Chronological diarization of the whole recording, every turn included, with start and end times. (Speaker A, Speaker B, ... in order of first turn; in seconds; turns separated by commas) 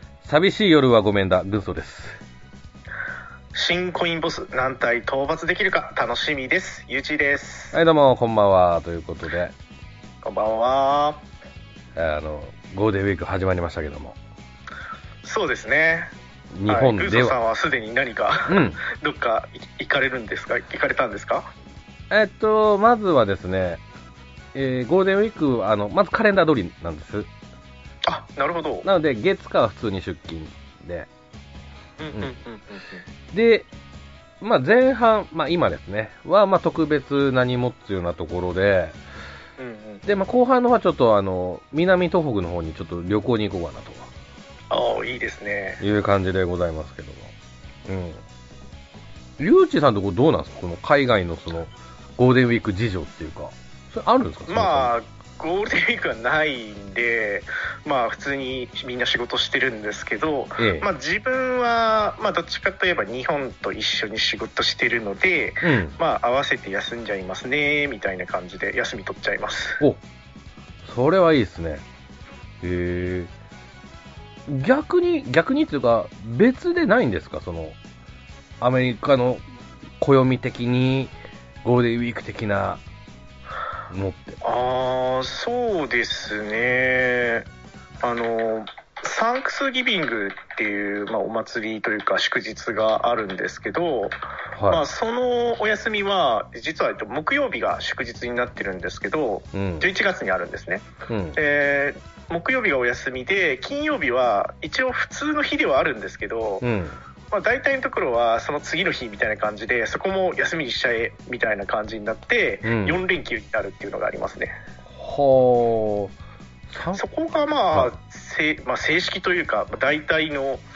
Speaker A: 0.2-2.2, Speaker B: 3.5-7.8, Speaker A: 7.7-9.6, Speaker B: 10.2-11.2, Speaker A: 11.9-14.2, Speaker B: 15.2-16.1, Speaker A: 16.5-17.4, Speaker B: 16.7-21.5, Speaker A: 18.5-18.8, Speaker A: 22.1-23.8, Speaker A: 24.5-27.3, Speaker B: 28.1-28.9, Speaker A: 28.8-31.1, Speaker B: 32.0-33.0, Speaker A: 33.3-33.7, Speaker A: 34.4-39.0, Speaker B: 39.6-40.0, Speaker A: 40.0-44.1, Speaker B: 44.7-45.8, Speaker A: 45.8-47.3, Speaker A: 47.9-48.2, Speaker A: 49.4-54.9, Speaker B: 54.5-69.8, Speaker A: 60.6-60.9, Speaker A: 65.6-66.0, Speaker A: 70.8-71.8, Speaker A: 72.6-73.3, Speaker A: 74.5-77.8, Speaker A: 78.6-79.4, Speaker A: 80.0-82.8, Speaker A: 83.9-84.4, Speaker B: 84.4-87.5, Speaker B: 88.0-94.2, Speaker A: 94.5-94.8, Speaker B: 94.7-106.7, Speaker A: 99.5-99.9, Speaker A: 101.1-101.4, Speaker A: 106.6-107.0, Speaker B: 107.3-114.6, Speaker A: 112.7-113.0, Speaker A: 114.9-116.2, Speaker A: 116.7-117.0, Speaker B: 116.9-120.6